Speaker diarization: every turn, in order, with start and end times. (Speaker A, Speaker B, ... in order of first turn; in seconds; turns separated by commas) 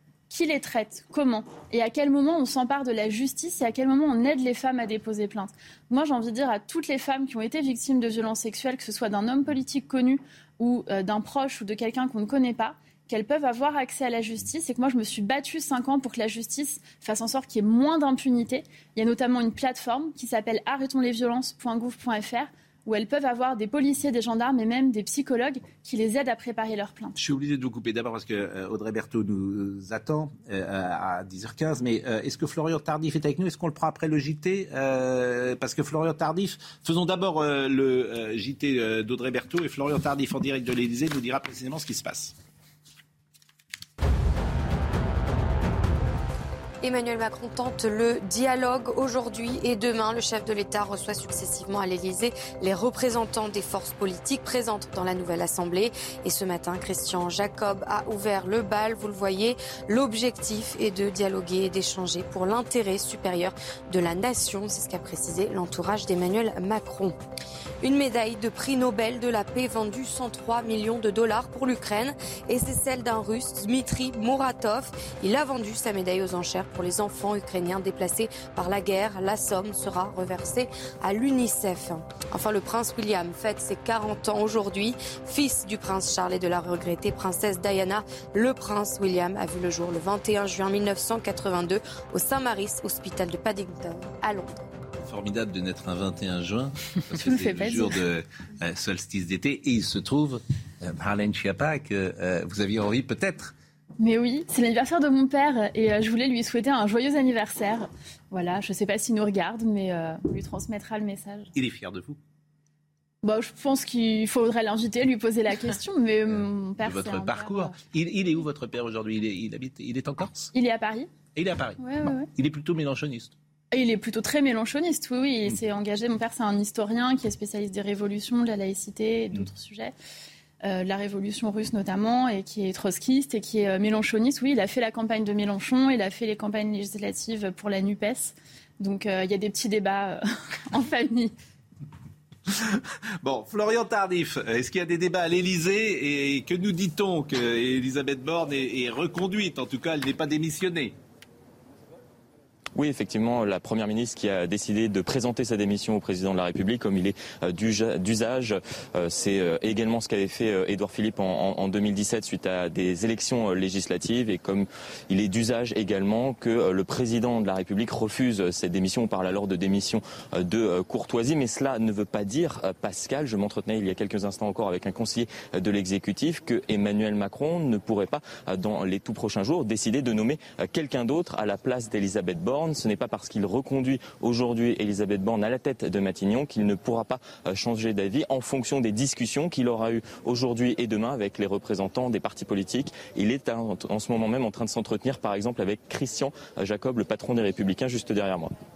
Speaker A: 0.3-27.1, Speaker B: 27.2-42.3, Speaker C: 46.8-67.2, Speaker C: 67.8-94.5, Speaker B: 95.0-103.5, Speaker A: 97.1-98.0, Speaker A: 104.0-111.5, Speaker B: 111.5-112.2, Speaker A: 113.2-117.8, Speaker B: 116.8-120.5, Speaker A: 120.5-121.1, Speaker B: 121.3-121.8, Speaker A: 121.8-122.3, Speaker B: 122.3-123.3, Speaker A: 123.7-129.9, Speaker A: 130.6-141.3, Speaker B: 142.5-150.9, Speaker D: 152.8-198.5